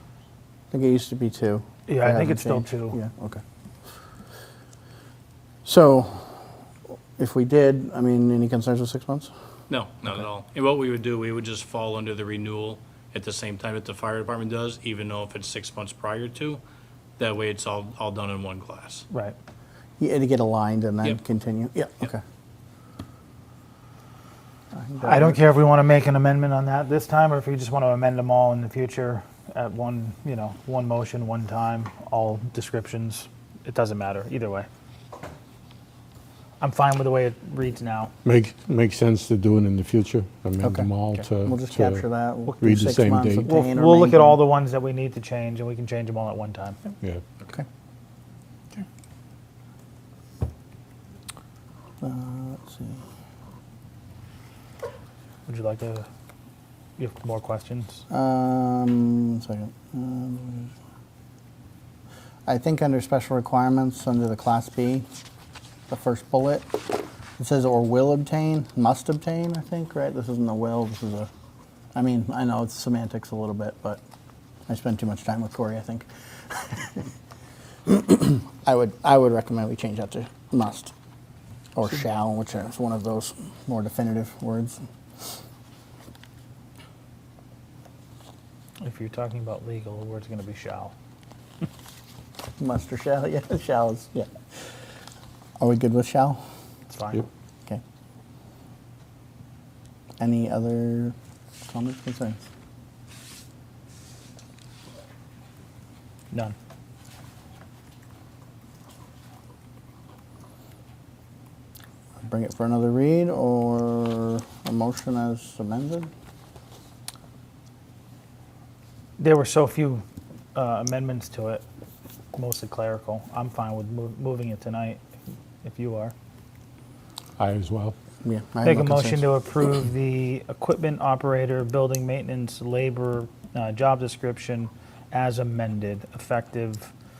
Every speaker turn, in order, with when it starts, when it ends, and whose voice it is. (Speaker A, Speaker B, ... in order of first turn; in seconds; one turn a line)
Speaker A: 0.7-3.4
Speaker B: 1.9-3.0
Speaker A: 5.6-6.5
Speaker A: 7.2-9.3
Speaker C: 9.7-16.6
Speaker C: 17.2-19.0
Speaker B: 19.1-19.4
Speaker A: 20.0-22.2
Speaker A: 24.7-25.4
Speaker B: 25.0-34.7
Speaker B: 36.6-38.1
Speaker D: 38.2-42.0
Speaker A: 40.6-44.4
Speaker D: 42.6-43.5
Speaker B: 43.4-46.8
Speaker A: 52.0-53.0
Speaker B: 55.5-56.1
Speaker B: 57.0-58.0
Speaker A: 58.1-60.7
Speaker A: 62.5-65.0
Speaker A: 65.9-66.8
Speaker A: 67.4-71.3
Speaker A: 71.9-74.0
Speaker A: 74.7-77.1
Speaker A: 77.8-80.9
Speaker A: 81.8-84.8
Speaker B: 88.8-90.9
Speaker A: 92.6-94.3
Speaker A: 95.6-96.4
Speaker B: 96.9-97.2
Speaker A: 100.2-102.4
Speaker A: 112.2-116.1
Speaker B: 119.2-120.0
Speaker B: 120.5-121.6
Speaker B: 122.3-125.0
Speaker B: 125.6-126.1
Speaker D: 127.4-127.9
Speaker A: 128.2-129.3
Speaker B: 128.6-136.9